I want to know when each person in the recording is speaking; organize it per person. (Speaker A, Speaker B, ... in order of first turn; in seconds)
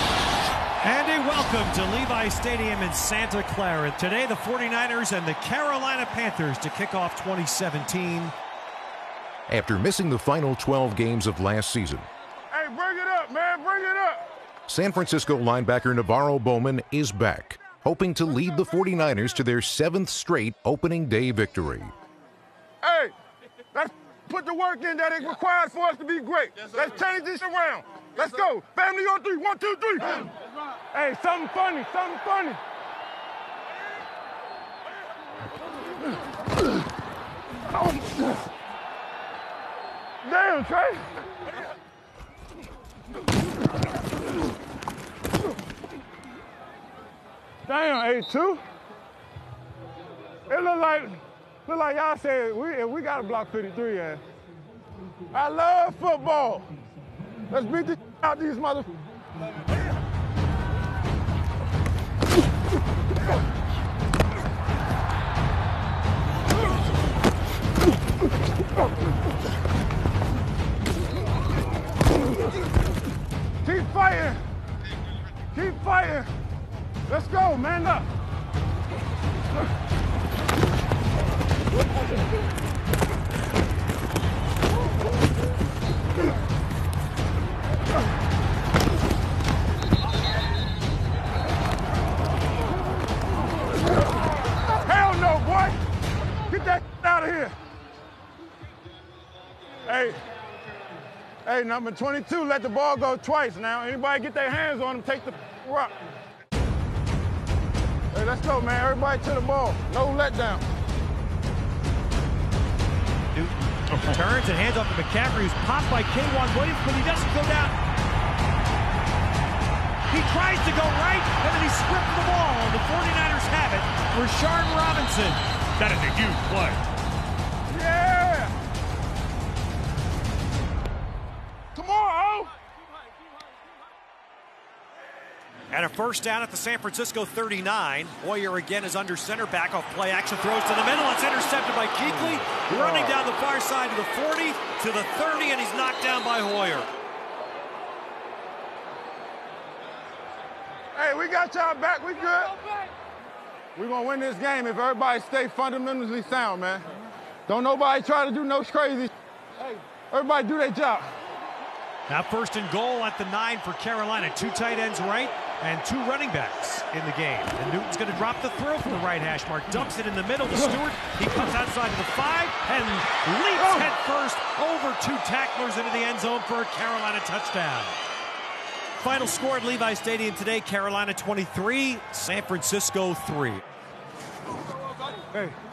Speaker A: 0.8-8.3, 113.3-117.7, 120.1-126.8, 135.7-146.9, 162.1-177.9, 179.0-183.6
Speaker B: 9.5-12.1, 14.7-21.9
Speaker C: 12.5-14.2, 22.8-23.1, 23.7-30.3, 30.9-32.6, 40.2-41.1, 47.7-48.6, 50.5-54.2, 55.3-56.7, 57.5-58.9, 73.6-74.4, 75.5-76.3, 77.1-78.1, 94.8-95.8, 96.5-97.5, 99.8-100.2, 101.4-106.0, 108.1-110.6, 127.7-128.5, 131.7-132.5, 142.7-143.1, 150.9-152.8, 153.8-156.8, 157.5-161.1